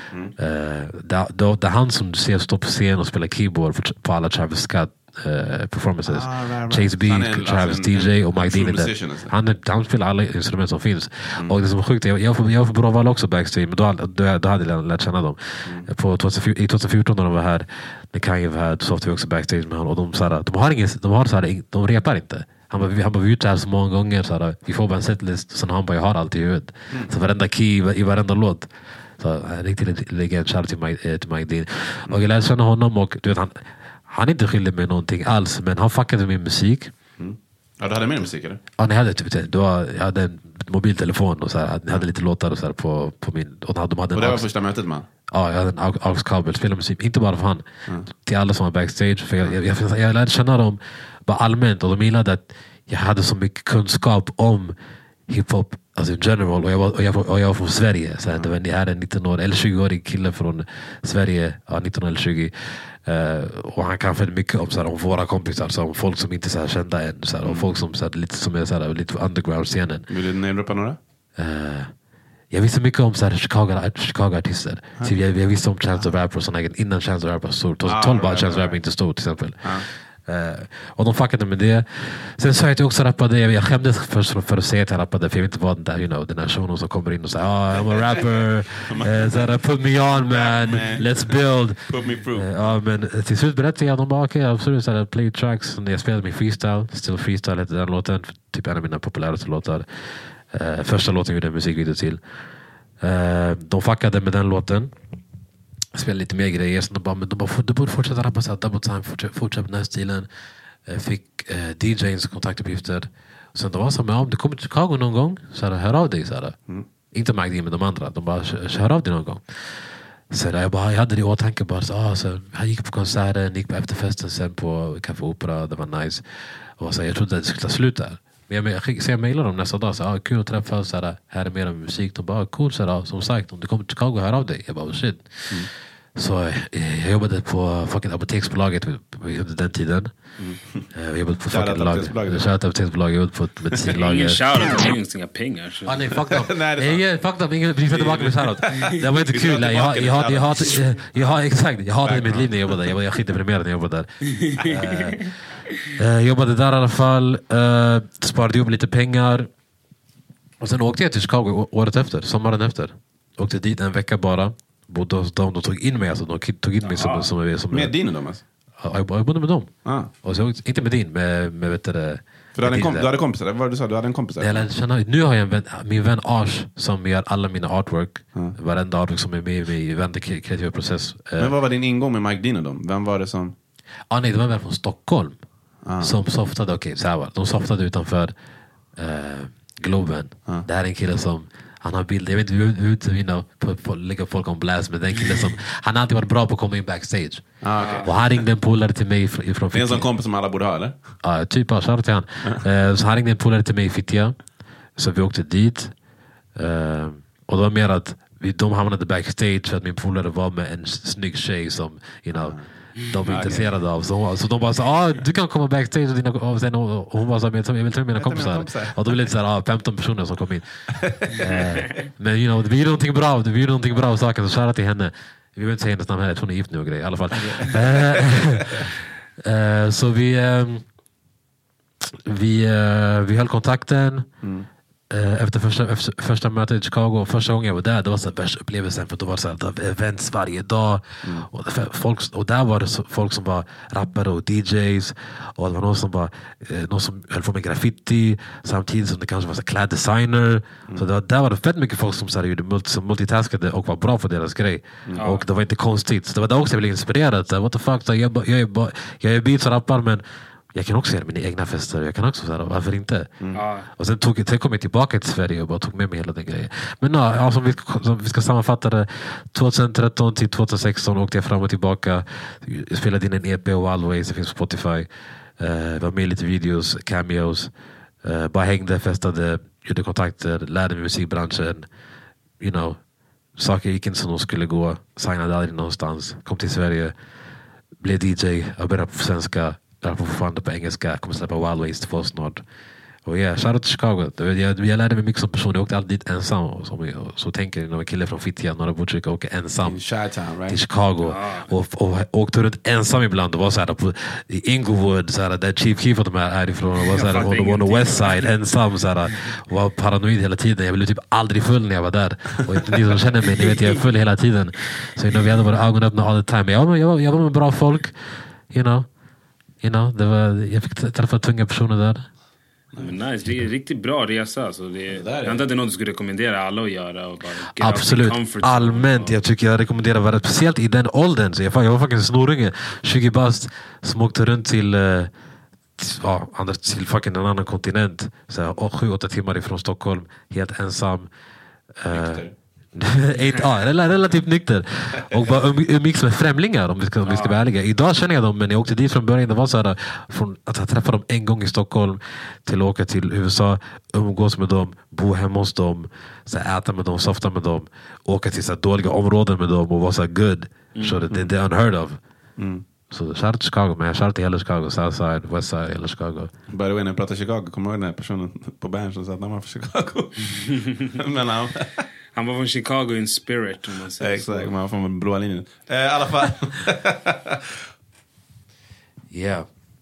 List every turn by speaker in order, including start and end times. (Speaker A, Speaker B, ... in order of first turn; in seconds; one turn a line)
Speaker A: 0.4-36.9
Speaker B: 6.1-9.3
Speaker B: 37.2-38.6
Speaker A: 38.8-44.5
Speaker B: 44.1-45.1
Speaker A: 45.3-47.6
Speaker A: 48.2-54.7
Speaker A: 55.3-62.5
Speaker A: 63.0-70.1
Speaker B: 67.4-67.7
Speaker B: 70.1-71.0
Speaker A: 71.4-71.9
Speaker A: 72.5-99.9
Speaker B: 77.8-78.8
Speaker B: 87.9-88.3
Speaker B: 88.9-89.5
Speaker B: 90.0-91.4
Speaker B: 91.9-92.5
Speaker A: 100.5-102.2
Speaker A: 103.0-104.9
Speaker A: 105.9-110.3
Speaker A: 110.8-116.5
Speaker A: 117.1-119.6
Speaker A: 120.3-126.2
Speaker A: 126.8-140.1
Speaker B: 140.4-140.8
Speaker A: 140.9-144.4
Speaker B: 141.5-142.5
Speaker B: 143.7-144.0
Speaker C: 143.9-146.1
Speaker A: 145.8-155.3
Speaker B: 146.2-147.0
Speaker B: 147.9-151.3
Speaker B: 152.0-152.9
Speaker C: 154.3-155.2
Speaker A: 156.0-159.5
Speaker A: 160.6-167.9
Speaker C: 166.8-167.3
Speaker B: 167.7-168.4
Speaker A: 168.8-173.1
Speaker B: 169.8-170.1
Speaker B: 172.6-174.7
Speaker A: 174.4-181.5
Speaker B: 181.4-183.5
Speaker A: 184.1-185.4
Speaker B: 185.8-186.2
Speaker A: 186.0-188.3
Speaker A: 189.0-197.4
Speaker B: 197.6-198.3
Speaker C: 197.8-198.1
Speaker A: 198.0-200.1
Speaker B: 199.7-201.0
Speaker A: 201.2-204.3
Speaker A: 204.9-205.9
Speaker A: 206.6-212.6
Speaker B: 212.4-212.6
Speaker A: 213.1-220.7
Speaker B: 213.3-213.7
Speaker B: 218.2-219.1
Speaker B: 221.0-221.6
Speaker A: 221.4-230.8
Speaker B: 227.3-228.3
Speaker A: 232.2-234.3
Speaker A: 235.1-263.3
Speaker C: 255.2-255.4
Speaker C: 263.5-263.9
Speaker A: 263.9-277.7
Speaker A: 278.2-281.9
Speaker A: 282.6-283.0
Speaker A: 283.6-287.1
Speaker A: 288.0-292.6
Speaker A: 293.2-300.0
Speaker B: 299.8-300.8
Speaker A: 300.7-318.1
Speaker C: 301.2-301.7
Speaker C: 307.0-308.5
Speaker A: 318.7-319.1
Speaker A: 319.8-322.3
Speaker C: 322.9-329.4
Speaker B: 325.1-325.6
Speaker A: 327.7-335.3
Speaker A: 336.0-341.3
Speaker A: 342.0-362.2
Speaker B: 342.1-342.5
Speaker C: 347.2-347.6
Speaker C: 360.9-361.2
Speaker B: 362.6-362.8
Speaker A: 363.1-366.5
Speaker B: 366.7-370.5
Speaker B: 371.1-372.0
Speaker C: 372.3-374.7
Speaker B: 374.2-377.6
Speaker A: 379.3-379.6